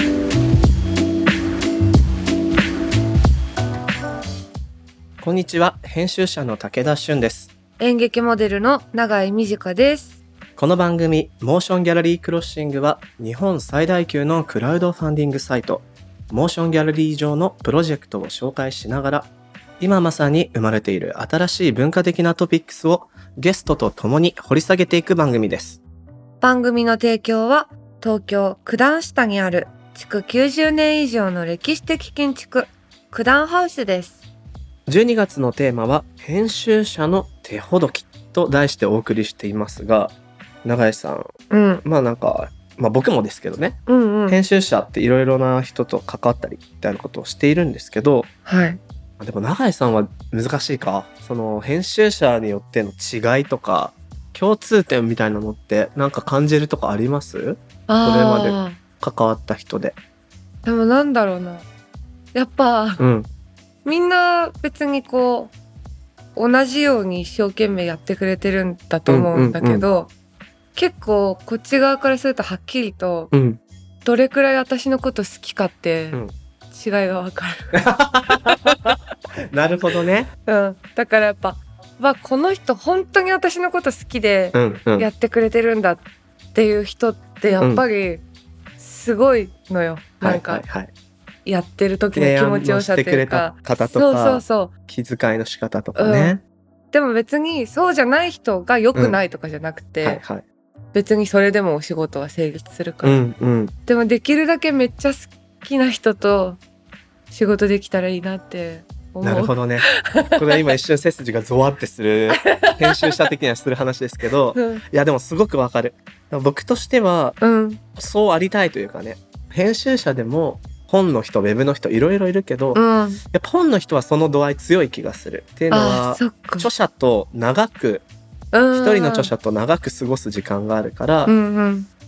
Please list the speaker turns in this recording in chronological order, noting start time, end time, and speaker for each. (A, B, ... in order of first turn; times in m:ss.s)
0:05.2-0:07.5 A
0:07.8-0:10.2 B
0:10.6-0:25.8 A
0:26.4-0:34.2 B
0:34.9-0:41.3 A
0:41.5-0:41.8 B
0:41.8-0:48.3 A
0:43.9-0:44.4 B
0:48.5-0:48.8 B
0:49.2-1:00.0 A
0:57.9-0:58.8 B
1:00.6-1:01.7 B
1:02.3-1:03.0 B
1:03.0-1:03.3 A
1:03.8-1:05.5 B
1:06.4-1:10.1 B
1:09.1-1:09.8 A
1:10.8-1:13.3 B
1:13.3-1:13.6 A
1:14.0-1:16.2 B
1:16.7-1:19.0 B
1:17.7-1:19.0 A
1:19.5-1:20.3 A
1:20.5-1:26.0 B
1:24.5-1:25.1 A
1:26.5-1:28.2 B
1:28.8-1:30.6 B
1:30.2-1:30.9 A
1:31.4-1:34.7 B
1:32.1-1:36.4 A
1:36.0-1:36.4 B
1:36.9-1:40.2 B
1:38.9-1:39.2 A
1:40.0-1:40.4 A
1:40.9-1:43.2 B
1:43.0-1:43.7 A
1:43.9-1:46.6 B
1:47.3-1:50.6 B
1:49.2-1:57.4 A
1:52.3-1:53.2 B
1:54.6-1:54.8 B
1:57.4-1:57.8 B
1:58.0-2:02.8 A
2:02.7-2:03.2 B
2:03.3-2:08.1 A
2:05.7-2:06.7 B
2:08.5-2:09.3 B
2:08.7-2:11.3 A
2:11.3-2:11.9 B